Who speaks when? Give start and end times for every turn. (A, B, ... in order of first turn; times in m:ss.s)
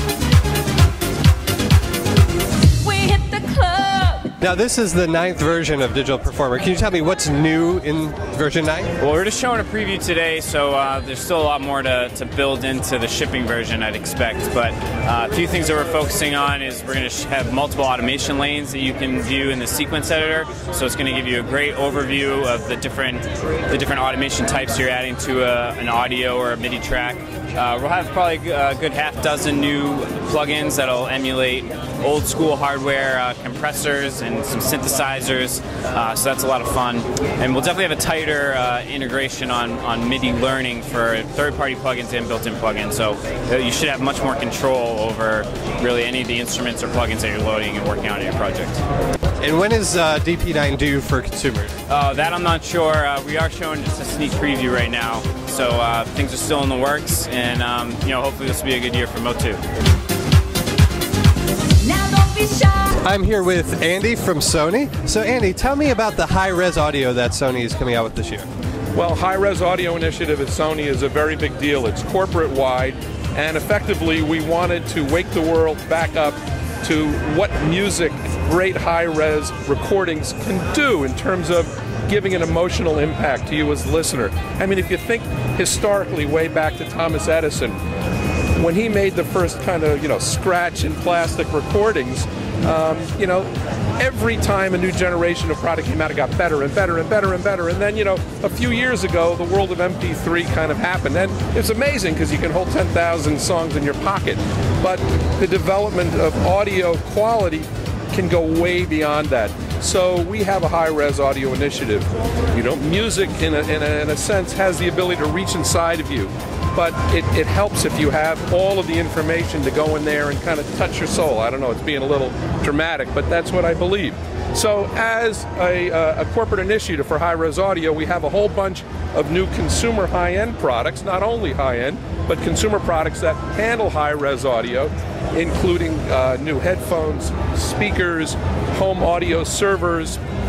0:02.8-0:04.4 A
0:04.4-0:08.9 B
0:09.0-0:48.8 C
0:49.4-0:51.7 B
0:51.9-0:59.6 C
1:01.8-1:03.0 A
1:03.0-1:08.5 B
1:08.9-1:27.8 D
1:28.6-2:20.2 D